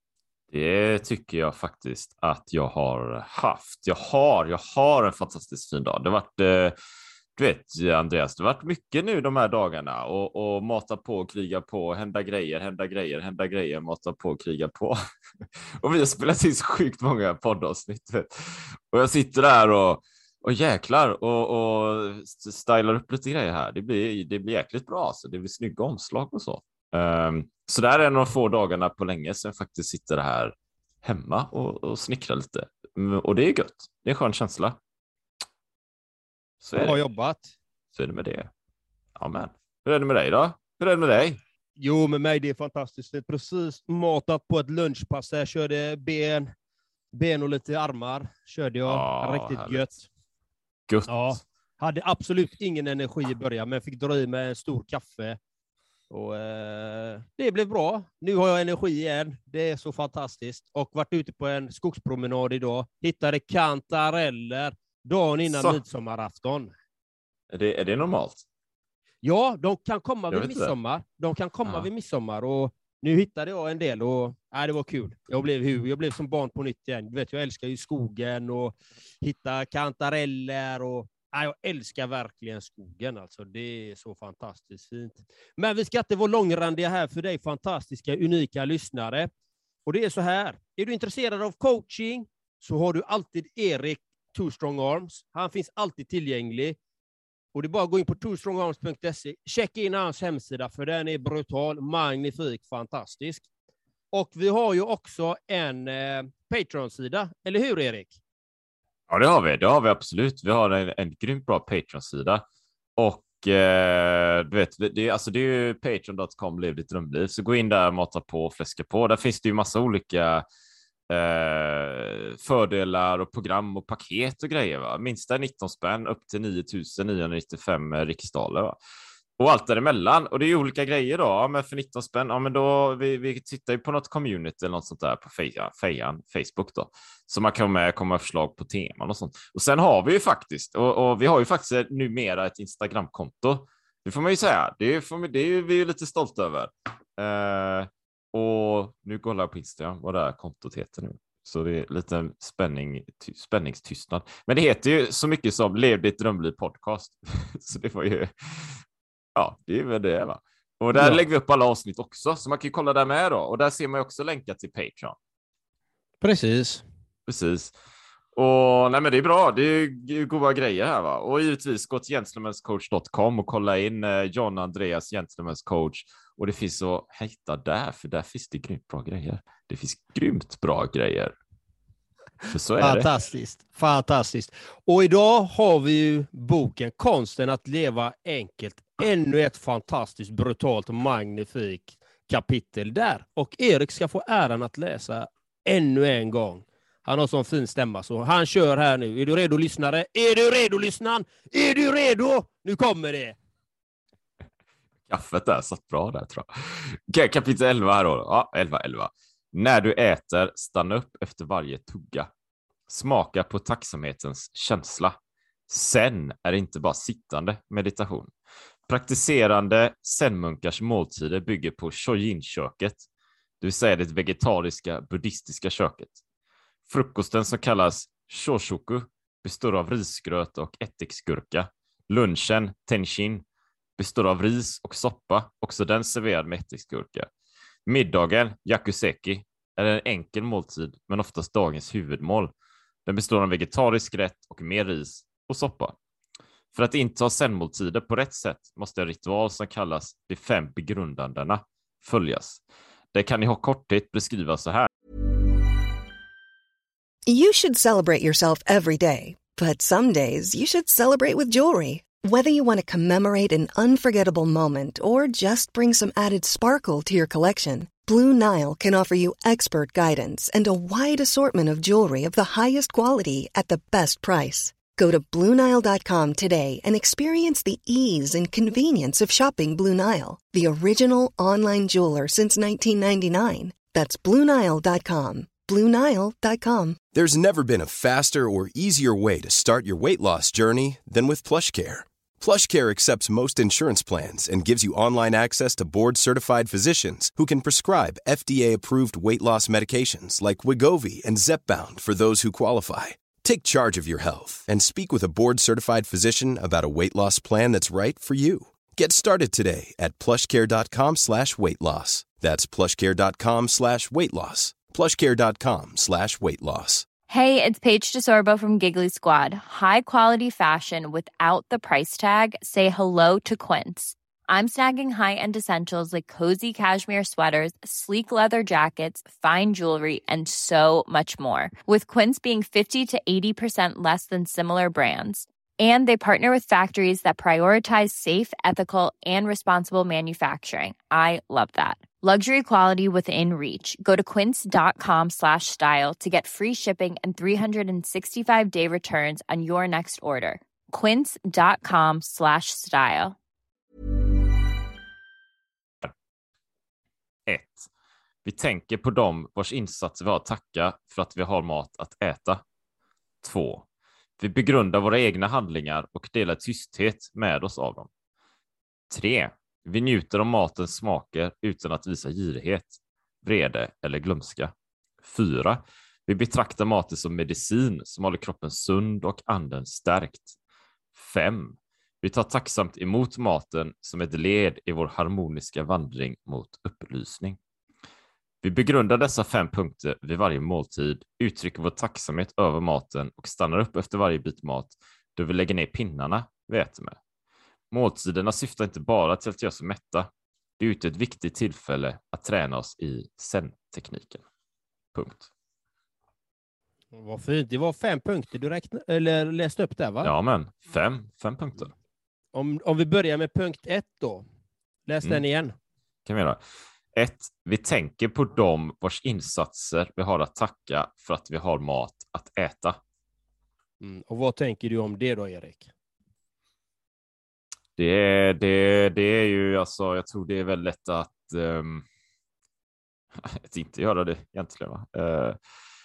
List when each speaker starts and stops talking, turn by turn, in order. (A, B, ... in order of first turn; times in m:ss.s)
0:00.5-0:06.8 A
0:07.4-0:15.0 A
0:15.8-0:34.8 A
0:36.6-0:37.0 A
0:36.8-0:37.5 B
0:38.0-0:38.5 A
0:39.2-0:41.4 A
0:41.8-0:46.5 B
0:47.1-0:50.0 B
0:48.9-0:49.9 A
0:50.9-0:51.4 A
0:51.1-0:55.4 B
0:56.1-1:06.7 B
1:05.5-1:05.8 A
1:07.5-1:08.4 A
1:09.2-1:29.3 B
1:10.3-1:10.7 A
1:29.8-1:36.8 B
1:37.5-1:43.5 B
1:44.1-1:48.2 B
1:49.1-1:52.4 A
1:53.0-2:00.4 A
2:01.1-2:08.8 A
2:09.4-2:38.8 A
2:39.3-2:45.2 A
2:40.9-2:41.2 B
2:46.2-2:46.8 B
2:47.3-2:47.7 A
2:48.3-3:01.3 A
3:02.5-3:03.1 A
3:02.8-3:23.4 B
3:25.1-3:32.3 A
3:32.9-3:35.2 A
3:35.7-3:38.3 A
3:38.9-3:43.1 A
3:43.6-3:46.2 A
3:46.9-3:53.4 A
3:54.0-3:57.3 A
3:57.9-4:02.5 A
4:03.1-4:06.0 A
4:06.7-4:12.6 A
4:13.1-4:14.9 A
4:17.2-4:47.0 C
4:47.1-5:17.1 D
5:17.3-5:53.3 E
5:57.5-5:57.9 A
5:58.4-6:02.6 A
6:03.4-6:03.8 A
6:04.4-6:08.1 A
6:09.1-6:20.5 A
6:21.1-6:27.6 A
6:28.6-6:37.2 A
6:37.9-6:44.4 A
6:45.1-6:45.5 A
6:47.1-6:50.3 B
6:50.2-6:51.9 A
6:52.5-6:54.4 B
6:55.1-6:55.8 B
6:56.2-6:56.6 A
6:57.1-7:03.0 A
7:04.0-7:05.9 B
7:08.0-7:12.0 A
7:13.4-7:15.6 A